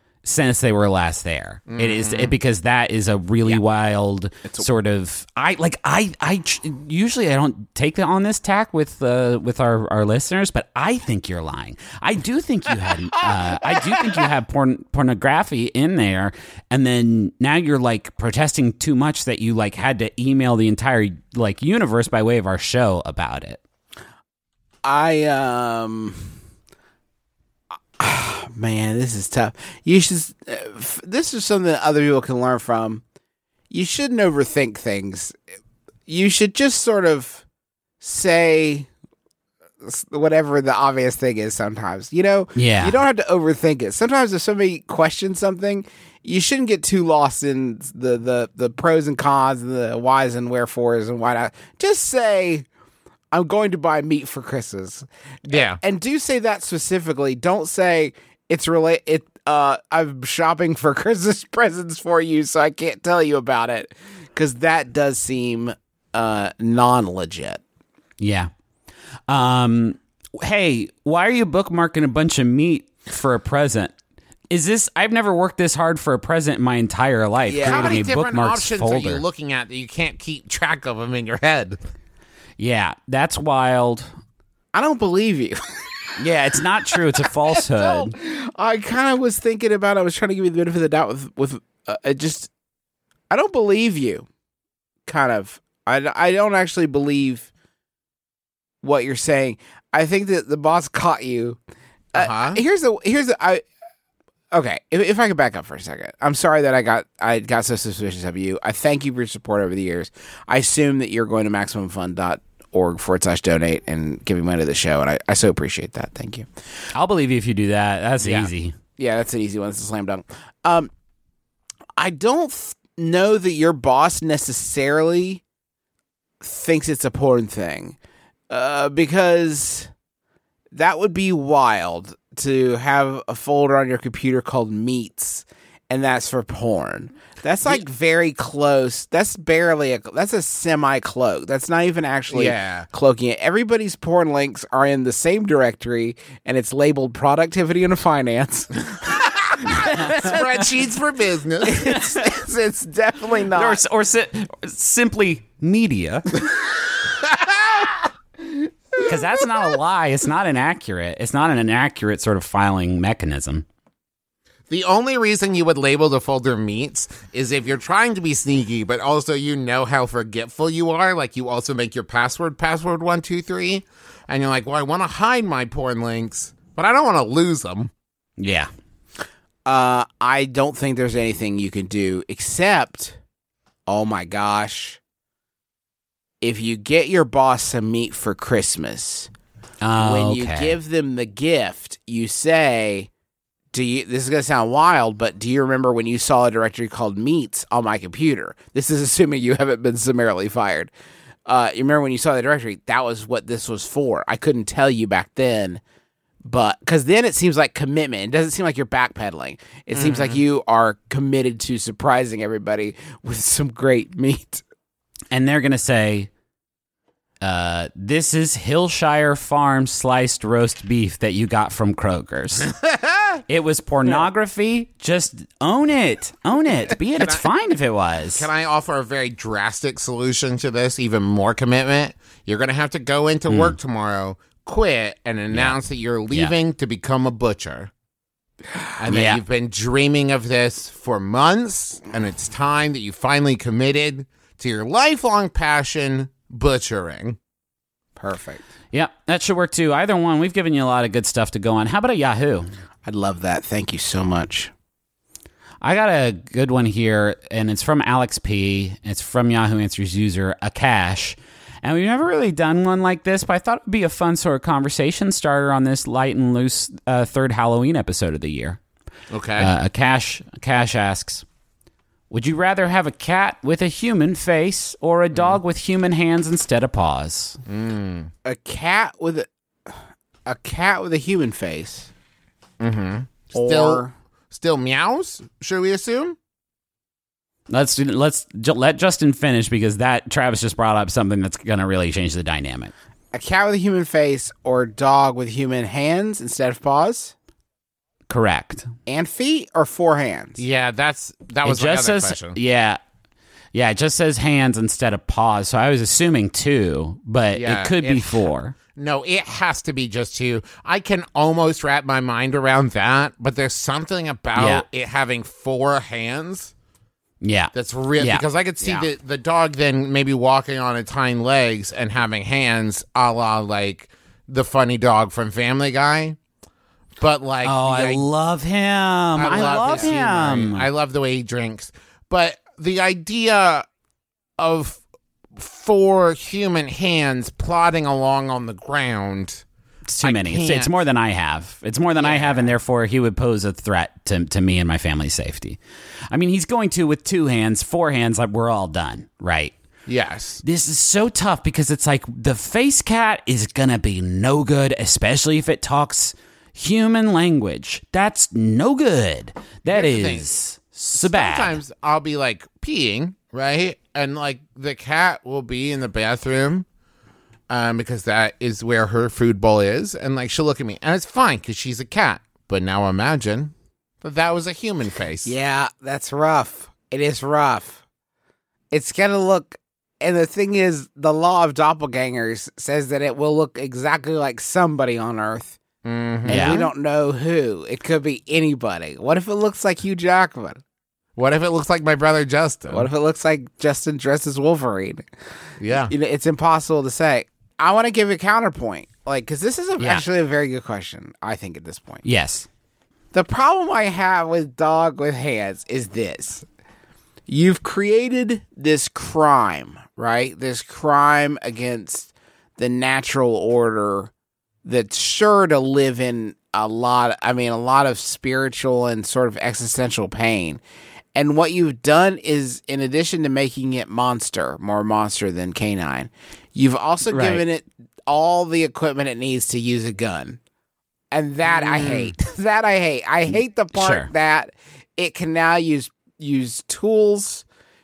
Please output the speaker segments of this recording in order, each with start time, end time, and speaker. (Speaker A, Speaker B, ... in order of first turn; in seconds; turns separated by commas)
Speaker A: 0.2-23.6, Speaker B: 1.7-2.4, Speaker C: 24.8-26.4, Speaker C: 28.0-33.0, Speaker C: 33.7-35.4, Speaker C: 36.1-37.4, Speaker C: 38.0-38.9, Speaker C: 39.8-52.7, Speaker A: 42.5-43.0, Speaker C: 53.3-67.6, Speaker B: 55.5-55.8, Speaker A: 68.2-68.5, Speaker A: 69.3-73.9, Speaker A: 74.5-79.2, Speaker C: 77.5-78.1, Speaker B: 77.6-81.8, Speaker A: 82.6-84.1, Speaker C: 84.7-85.6, Speaker A: 86.2-88.1, Speaker C: 87.6-92.5, Speaker C: 93.3-94.3, Speaker C: 95.0-97.5, Speaker C: 98.8-101.6, Speaker C: 102.1-103.6, Speaker B: 102.1-102.6, Speaker C: 104.5-116.5, Speaker A: 116.9-118.7, Speaker B: 118.2-118.5, Speaker C: 119.0-120.9, Speaker C: 122.0-125.4, Speaker C: 126.4-128.0, Speaker C: 128.5-129.9, Speaker C: 130.7-148.9, Speaker B: 142.3-142.9, Speaker B: 149.1-151.8, Speaker C: 149.6-150.4, Speaker C: 151.6-153.8, Speaker A: 151.9-152.2, Speaker A: 153.5-156.3, Speaker C: 159.0-159.4, Speaker A: 159.0-163.7, Speaker B: 164.7-177.9, Speaker A: 178.4-178.7, Speaker C: 179.7-183.2, Speaker C: 183.9-185.0, Speaker C: 186.4-189.3, Speaker A: 189.8-190.8, Speaker C: 190.0-193.1, Speaker C: 193.7-200.9, Speaker C: 201.4-205.8, Speaker C: 206.4-214.6, Speaker B: 209.9-210.4, Speaker A: 215.3-216.3, Speaker A: 217.4-222.7, Speaker B: 222.8-223.4, Speaker A: 223.5-228.5, Speaker B: 227.2-227.4, Speaker B: 228.3-237.9, Speaker A: 233.5-233.7, Speaker B: 239.0-247.4, Speaker A: 239.1-239.4, Speaker C: 248.2-248.7, Speaker A: 248.9-252.7, Speaker C: 253.0-254.7, Speaker A: 255.8-268.8, Speaker B: 269.3-269.7, Speaker A: 269.6-271.4, Speaker A: 272.3-277.6, Speaker B: 277.7-278.3, Speaker C: 278.4-282.1, Speaker B: 282.8-286.4, Speaker C: 283.5-284.1, Speaker A: 287.7-292.9, Speaker C: 293.3-297.3, Speaker A: 298.3-298.9, Speaker C: 299.1-300.6, Speaker B: 300.6-302.6, Speaker A: 301.6-303.0, Speaker A: 303.7-308.7, Speaker B: 307.5-316.7, Speaker A: 314.6-314.8, Speaker A: 317.4-318.4, Speaker B: 317.7-326.4, Speaker C: 318.8-319.1, Speaker B: 327.2-328.2, Speaker A: 327.6-330.8, Speaker B: 329.4-333.8, Speaker C: 329.5-330.1, Speaker B: 334.6-335.0, Speaker B: 335.6-339.6, Speaker A: 340.1-345.8, Speaker B: 340.2-340.9, Speaker B: 342.2-342.7, Speaker A: 346.3-349.7, Speaker B: 350.1-350.6, Speaker A: 350.6-361.8, Speaker B: 359.9-360.5, Speaker B: 361.1-366.9, Speaker B: 367.7-375.5, Speaker C: 375.4-378.0, Speaker C: 378.9-385.8, Speaker B: 386.0-386.9, Speaker A: 386.4-386.8, Speaker C: 386.4-390.8, Speaker B: 391.4-393.1, Speaker C: 392.9-395.3, Speaker B: 395.8-396.1, Speaker C: 395.9-402.2, Speaker A: 400.0-400.2, Speaker A: 402.2-402.7, Speaker C: 403.3-406.6, Speaker C: 407.5-414.3, Speaker C: 414.8-420.8, Speaker C: 421.3-430.6, Speaker A: 427.3-427.6, Speaker C: 431.3-437.6, Speaker B: 431.6-432.3, Speaker A: 433.9-434.3